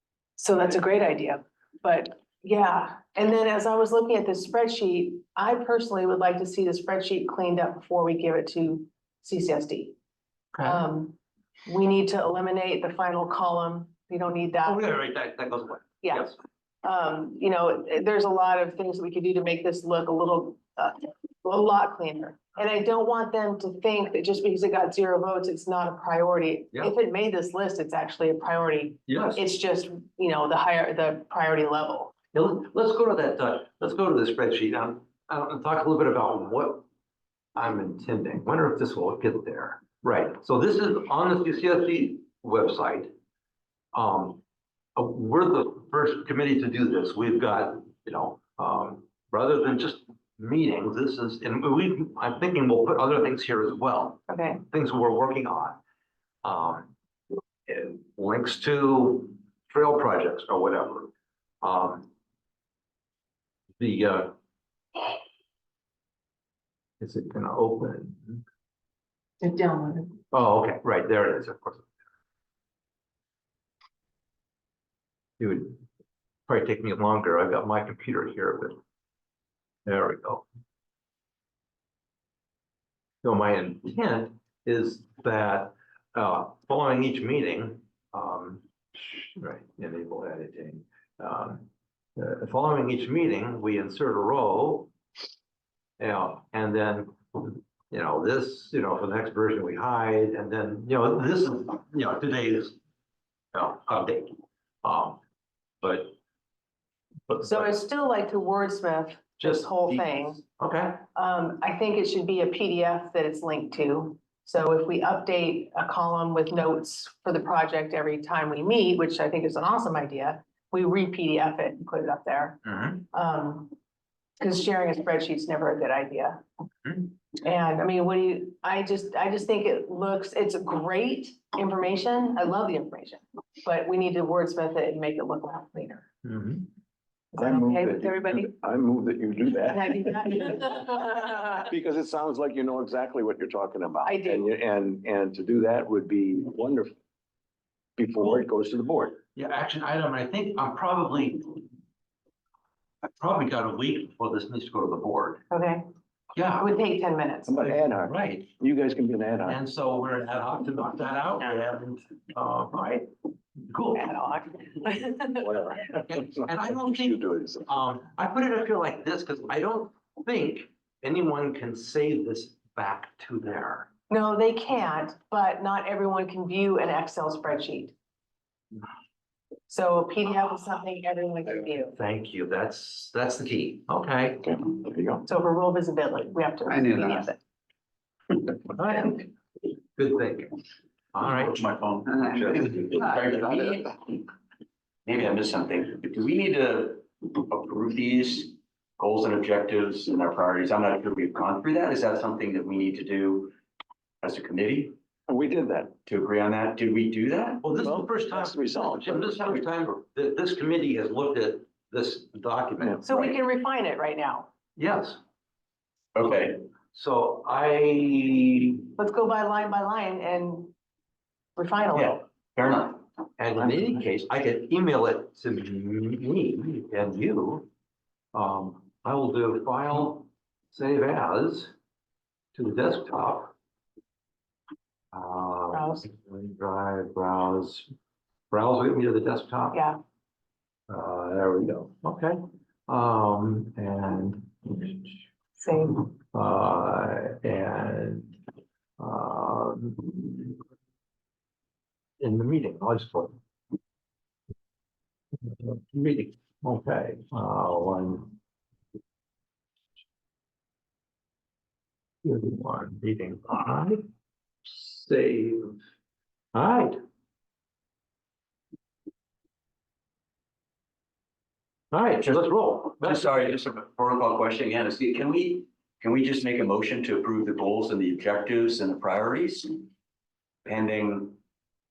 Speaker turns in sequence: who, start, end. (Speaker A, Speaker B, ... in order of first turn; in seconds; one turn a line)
Speaker A: 0.4-9.9
Speaker B: 10.5-10.8
Speaker A: 10.6-14.8
Speaker B: 14.6-16.3
Speaker A: 16.0-16.3
Speaker A: 16.8-32.1
Speaker B: 29.1-29.4
Speaker B: 32.3-36.8
Speaker B: 37.5-43.1
Speaker B: 43.9-44.4
Speaker B: 45.0-55.8
Speaker A: 54.3-54.6
Speaker B: 56.4-56.9
Speaker B: 57.7-61.1
Speaker B: 61.6-62.1
Speaker B: 63.8-64.3
Speaker B: 67.0-68.4
Speaker A: 69.4-70.2
Speaker B: 70.3-71.9
Speaker B: 75.4-75.8
Speaker B: 76.5-78.8
Speaker B: 79.8-80.4
Speaker B: 83.2-94.9
Speaker B: 96.0-102.8
Speaker B: 103.5-105.2
Speaker B: 105.8-106.2
Speaker B: 107.3-107.7
Speaker A: 107.4-110.4
Speaker B: 109.4-111.0
Speaker A: 111.1-122.6
Speaker B: 122.6-123.0
Speaker A: 123.1-123.7
Speaker A: 124.4-126.4
Speaker A: 127.3-136.1
Speaker B: 136.2-136.7
Speaker A: 137.3-138.5
Speaker C: 137.4-140.7
Speaker A: 139.7-141.7
Speaker C: 141.7-147.0
Speaker A: 144.0-144.5
Speaker C: 148.0-149.2
Speaker B: 149.3-151.6
Speaker B: 153.2-155.4
Speaker A: 155.5-155.8
Speaker B: 156.3-156.7
Speaker A: 156.6-157.6
Speaker C: 157.5-159.6
Speaker B: 157.7-158.5
Speaker B: 159.5-163.1
Speaker B: 163.7-164.1
Speaker A: 163.9-165.5
Speaker C: 165.4-167.7
Speaker B: 166.0-173.9
Speaker A: 174.1-177.9
Speaker A: 179.7-182.0
Speaker B: 181.9-184.4
Speaker C: 184.4-185.2
Speaker A: 185.3-187.4
Speaker B: 188.6-189.3
Speaker B: 189.9-190.6
Speaker B: 191.1-191.6
Speaker D: 191.2-194.2
Speaker D: 195.0-203.5
Speaker D: 204.2-204.9
Speaker C: 205.3-205.9
Speaker D: 206.1-207.6
Speaker B: 207.6-213.1
Speaker C: 207.8-209.3
Speaker A: 213.1-214.5
Speaker B: 214.8-215.2
Speaker D: 216.1-216.6
Speaker B: 216.9-218.8
Speaker A: 219.0-220.7
Speaker A: 221.6-222.2
Speaker D: 221.9-223.0
Speaker B: 223.4-227.7
Speaker B: 228.3-231.7
Speaker B: 232.5-233.5
Speaker B: 235.1-237.8
Speaker A: 235.7-236.1
Speaker B: 238.5-239.8
Speaker A: 239.7-240.0
Speaker B: 240.9-245.2
Speaker A: 245.6-246.0
Speaker B: 246.3-248.4
Speaker B: 249.0-250.6
Speaker B: 252.2-253.3
Speaker B: 255.4-258.3
Speaker B: 262.2-264.0
Speaker B: 264.6-265.8
Speaker B: 266.5-267.0
Speaker B: 271.9-273.6
Speaker D: 272.9-279.9
Speaker D: 280.6-281.4